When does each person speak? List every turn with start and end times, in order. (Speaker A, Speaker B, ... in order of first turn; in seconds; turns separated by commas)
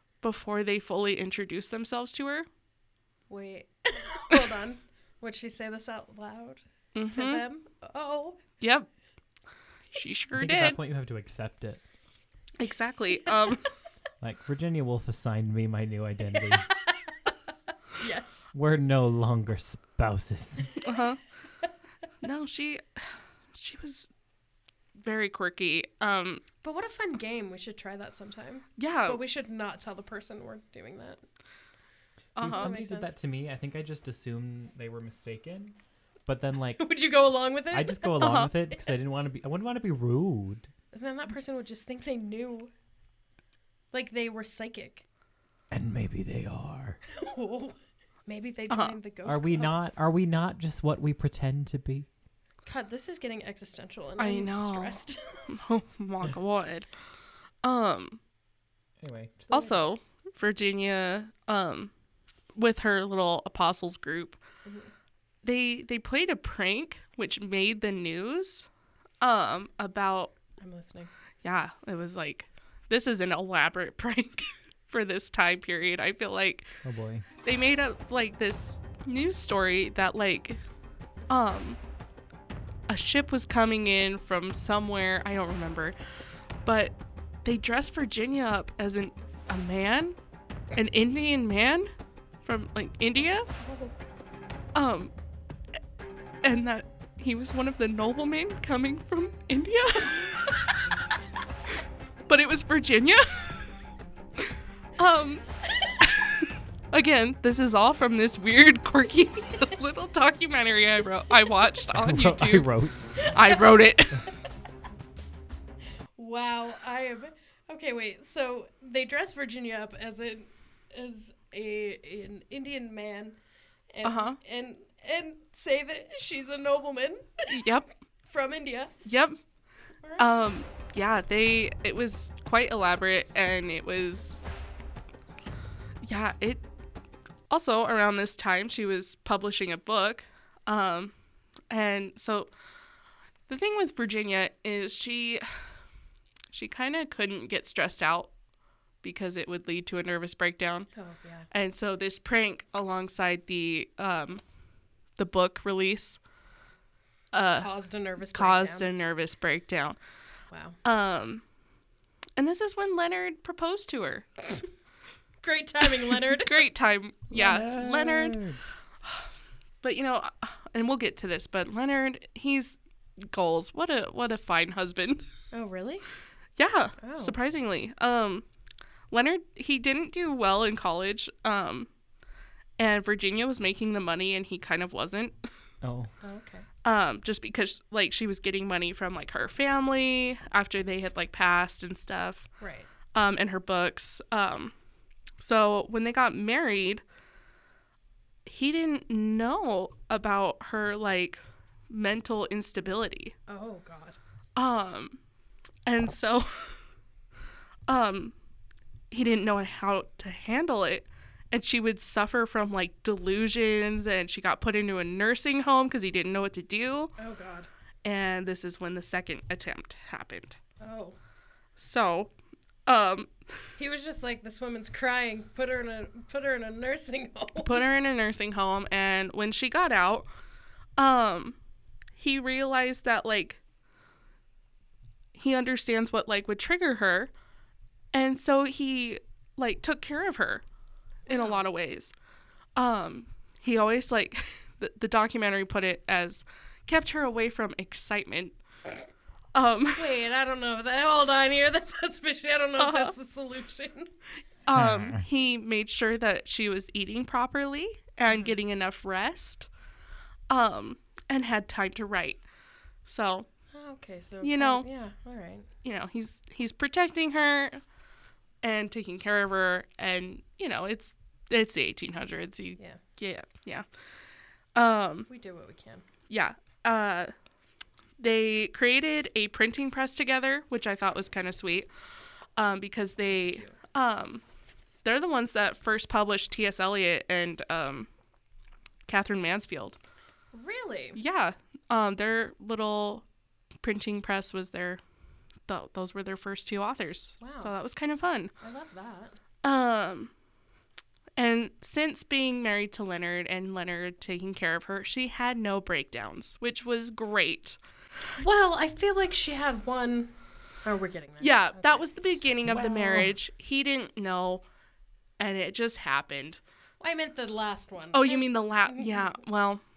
Speaker A: 0.2-2.5, Speaker B: 3.3-8.4, Speaker A: 6.9-7.4, Speaker A: 8.6-8.9, Speaker A: 9.9-10.8, Speaker C: 10.3-11.8, Speaker A: 12.6-13.7, Speaker C: 14.2-16.7, Speaker B: 16.4-17.1, Speaker B: 18.0-18.5, Speaker C: 18.5-20.7, Speaker A: 20.8-21.2, Speaker A: 22.2-24.1, Speaker A: 25.0-26.4, Speaker B: 26.6-31.2, Speaker A: 28.8-29.2, Speaker A: 32.3-32.7, Speaker C: 32.4-36.8, Speaker B: 32.4-33.1, Speaker B: 36.8-38.5, Speaker C: 37.7-40.7, Speaker A: 38.2-38.5, Speaker B: 40.9-42.7, Speaker B: 43.9-45.0, Speaker C: 45.7-47.0, Speaker B: 47.1-47.8, Speaker B: 48.3-49.8, Speaker A: 48.7-49.0, Speaker C: 49.2-52.1, Speaker B: 52.6-55.5, Speaker A: 54.2-56.9, Speaker A: 57.6-58.2, Speaker C: 59.0-59.8, Speaker A: 59.5-61.9, Speaker B: 59.6-59.9, Speaker A: 62.5-64.4, Speaker B: 64.6-64.9, Speaker A: 65.4-68.7, Speaker A: 69.2-70.3, Speaker B: 70.6-71.1, Speaker A: 71.4-76.7, Speaker C: 76.8-77.2, Speaker A: 77.4-80.6, Speaker A: 81.3-81.8, Speaker A: 82.9-85.9, Speaker A: 86.6-90.2, Speaker A: 90.7-91.9, Speaker A: 92.4-93.5, Speaker B: 93.6-93.9, Speaker A: 94.7-95.1, Speaker A: 96.4-100.6, Speaker A: 102.3-103.6, Speaker A: 105.0-105.4, Speaker A: 106.0-112.7, Speaker C: 111.9-113.2, Speaker A: 113.2-114.2, Speaker B: 116.2-123.4, Speaker B: 123.9-127.6, Speaker A: 124.0-124.4, Speaker A: 127.5-127.9, Speaker B: 128.2-128.9, Speaker A: 129.0-129.4, Speaker B: 130.0-130.4, Speaker A: 130.2-134.4, Speaker A: 136.0-136.6, Speaker A: 137.5-141.1, Speaker A: 141.7-142.5, Speaker A: 143.5-145.4, Speaker A: 146.5-148.3, Speaker A: 149.0-150.9, Speaker B: 150.9-151.5, Speaker A: 151.5-154.4, Speaker A: 155.2-156.2, Speaker A: 157.3-157.7, Speaker B: 157.6-158.9, Speaker A: 158.3-160.0, Speaker B: 160.5-160.8, Speaker A: 160.8-161.4, Speaker A: 162.4-164.2, Speaker B: 165.4-166.7, Speaker A: 165.9-168.4, Speaker C: 167.3-168.6, Speaker A: 169.8-175.2, Speaker B: 175.5-176.0, Speaker A: 176.6-178.4, Speaker B: 177.0-177.3, Speaker A: 179.1-181.9, Speaker A: 182.8-185.3, Speaker C: 185.8-186.1, Speaker B: 186.2-186.7, Speaker A: 186.8-192.5, Speaker B: 192.6-192.9, Speaker A: 193.1-194.7, Speaker A: 195.4-197.0, Speaker A: 198.4-201.4, Speaker A: 201.9-203.3, Speaker B: 203.5-204.2, Speaker A: 204.6-205.2, Speaker A: 205.8-206.7, Speaker A: 207.9-208.3, Speaker A: 209.1-217.1, Speaker B: 217.2-217.7, Speaker A: 218.0-220.6, Speaker B: 220.8-221.2, Speaker A: 221.8-222.3, Speaker A: 222.8-223.3, Speaker B: 223.8-227.8, Speaker A: 227.6-230.3, Speaker A: 231.0-231.6, Speaker A: 232.2-233.6, Speaker A: 235.3-237.3, Speaker A: 238.1-240.6, Speaker A: 241.3-242.1, Speaker B: 241.3-241.6, Speaker A: 242.8-248.6, Speaker A: 249.5-250.1, Speaker B: 249.9-254.1, Speaker A: 252.8-253.1, Speaker A: 254.7-259.7, Speaker C: 254.7-255.2, Speaker B: 258.3-258.6, Speaker A: 260.5-262.4, Speaker A: 263.0-263.5, Speaker B: 263.7-265.7, Speaker A: 264.4-264.9, Speaker A: 265.8-267.8, Speaker A: 268.6-273.8, Speaker A: 274.7-275.3, Speaker B: 275.3-276.0, Speaker A: 276.3-277.3, Speaker A: 278.2-281.9, Speaker A: 282.6-284.4, Speaker B: 283.3-283.8, Speaker A: 285.0-288.1, Speaker A: 289.1-290.0, Speaker B: 290.5-291.2, Speaker A: 291.1-293.2, Speaker A: 293.8-295.0, Speaker A: 295.7-298.5, Speaker B: 297.4-297.7, Speaker B: 298.6-299.4, Speaker A: 299.6-300.3, Speaker A: 301.4-307.8, Speaker B: 308.4-312.1, Speaker A: 311.4-314.6, Speaker C: 312.6-313.3, Speaker A: 315.4-316.6, Speaker B: 317.0-319.4, Speaker A: 318.1-319.8